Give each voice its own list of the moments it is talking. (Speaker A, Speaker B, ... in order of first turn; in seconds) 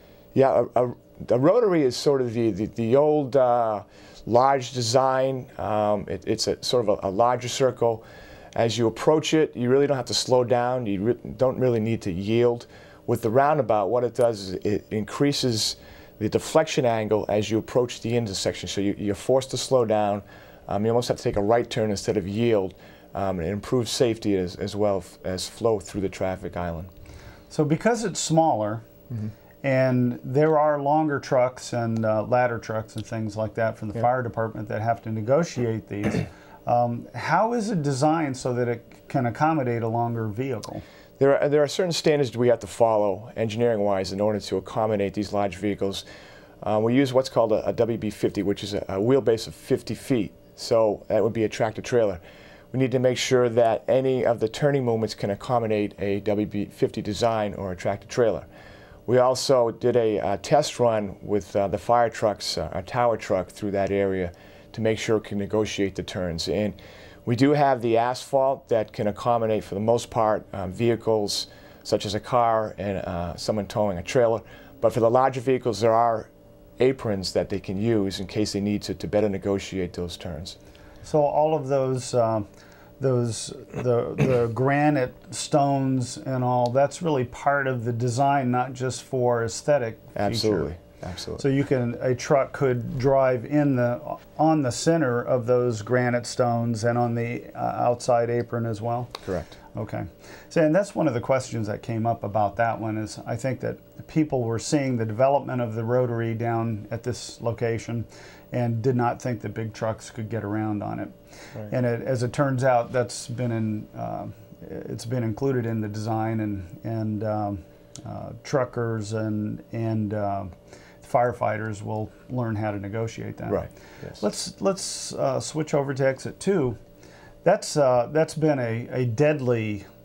Speaker A: 0.3-26.9, 41.2-46.0, 46.6-52.2, 52.7-58.5, 59.1-80.5, 90.2-91.4, 99.2-99.5
Speaker B: 27.5-28.8, 29.6-40.8, 81.0-82.5, 83.0-90.7, 91.4-99.2, 99.7-111.1, 111.6-126.8, 127.4-129.8